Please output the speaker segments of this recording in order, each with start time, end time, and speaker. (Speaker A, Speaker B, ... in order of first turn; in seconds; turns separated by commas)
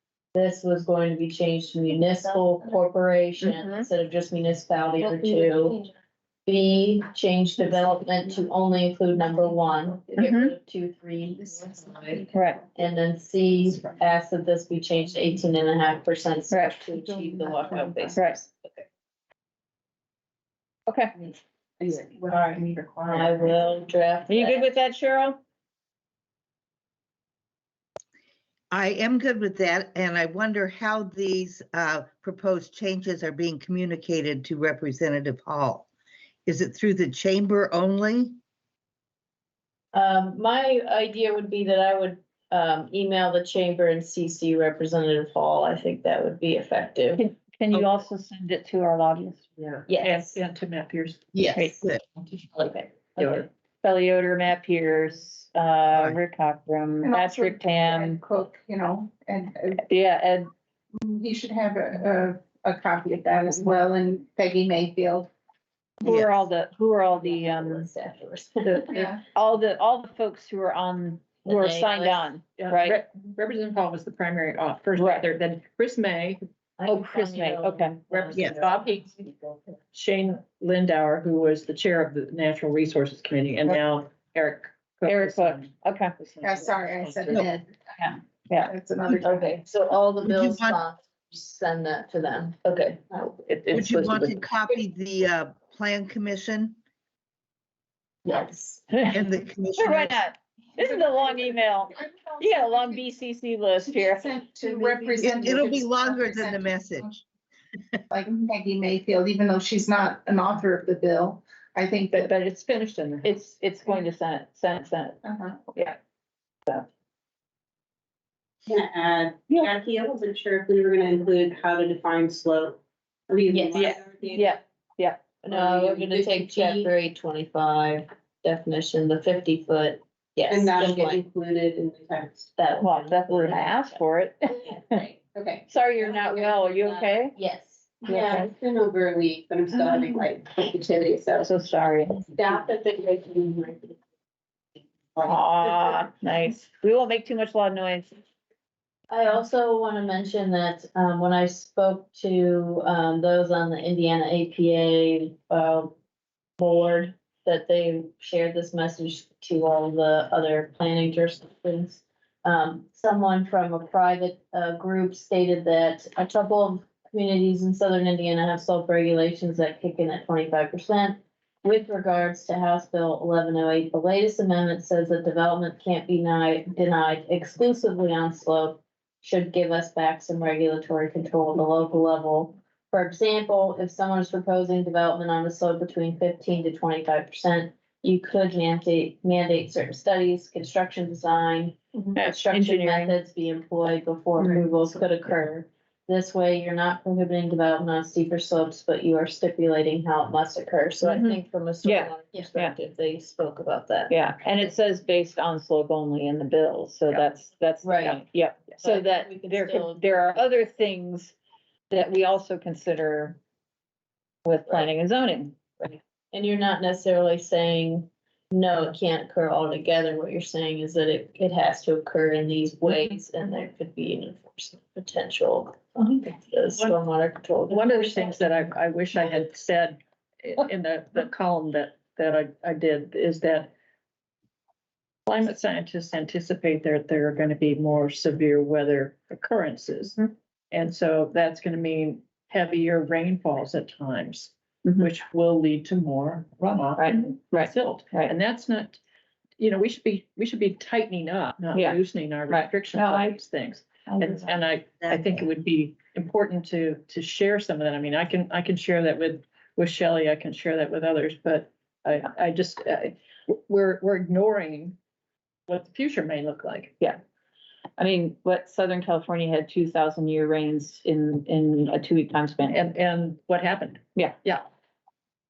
Speaker A: 0.3-5.8, Speaker B: 3.4-3.9, Speaker C: 5.2-5.7, Speaker A: 6.5-12.2, Speaker B: 10.2-10.5, Speaker D: 11.4-12.3, Speaker B: 12.3-12.6, Speaker A: 12.7-18.9, Speaker B: 16.5-16.8, Speaker D: 16.9-18.2, Speaker B: 20.9-21.3, Speaker C: 21.8-22.6, Speaker D: 22.1-23.2, Speaker A: 22.3-24.7, Speaker B: 24.3-25.4, Speaker E: 28.7-35.9, Speaker E: 36.5-38.4, Speaker A: 39.9-47.2, Speaker B: 47.2-49.5, Speaker E: 47.7-48.0, Speaker A: 49.9-50.4, Speaker F: 50.0-51.3, Speaker E: 51.3-52.0, Speaker B: 51.5-51.8, Speaker A: 52.5-53.4, Speaker B: 53.2-58.2, Speaker D: 57.0-59.8, Speaker B: 59.8-60.5, Speaker D: 60.9-65.3, Speaker B: 66.0-67.9, Speaker A: 67.2-69.1, Speaker B: 68.6-73.0, Speaker D: 68.9-69.2, Speaker A: 71.4-72.3, Speaker F: 72.6-76.4, Speaker B: 75.0-75.3, Speaker A: 76.8-79.6, Speaker B: 76.8-78.0, Speaker F: 78.1-79.1, Speaker E: 78.3-78.6, Speaker F: 79.9-87.5, Speaker B: 85.0-86.2, Speaker D: 86.4-87.9, Speaker B: 88.0-88.7, Speaker D: 88.6-89.5, Speaker A: 89.2-94.3, Speaker E: 90.2-90.8, Speaker E: 93.7-96.8, Speaker A: 98.2-98.8, Speaker B: 98.9-99.2, Speaker E: 99.1-100.2, Speaker B: 99.8-104.4, Speaker D: 100.7-103.0, Speaker D: 103.9-107.2, Speaker C: 104.8-105.2, Speaker E: 105.2-107.1, Speaker D: 108.1-112.3, Speaker B: 112.1-115.2, Speaker F: 112.7-113.3, Speaker D: 115.2-115.6, Speaker C: 118.7-124.6, Speaker A: 123.5-124.0, Speaker B: 123.8-125.2, Speaker A: 125.4-131.2, Speaker C: 125.5-126.9, Speaker C: 130.5-132.5, Speaker A: 132.6-134.0, Speaker B: 132.8-135.1, Speaker C: 134.7-137.1, Speaker B: 135.7-137.3, Speaker A: 137.3-138.5, Speaker C: 138.1-141.5, Speaker B: 138.1-138.5, Speaker B: 139.8-140.0, Speaker B: 141.4-142.2, Speaker C: 142.2-144.0, Speaker C: 145.2-146.1, Speaker B: 145.2-148.2, Speaker A: 149.1-155.9, Speaker A: 156.6-204.7, Speaker B: 192.1-193.2, Speaker B: 194.4-194.6, Speaker B: 201.0-202.7, Speaker B: 204.1-211.3, Speaker A: 207.8-208.2, Speaker A: 208.7-210.4, Speaker B: 211.9-213.4, Speaker B: 214.4-215.9, Speaker A: 216.3-228.4, Speaker F: 227.7-233.7, Speaker F: 235.3-249.0, Speaker B: 246.9-248.3, Speaker F: 249.6-264.9, Speaker B: 251.7-253.4, Speaker B: 254.1-254.5, Speaker F: 265.7-266.9, Speaker B: 268.0-272.8, Speaker F: 272.6-274.6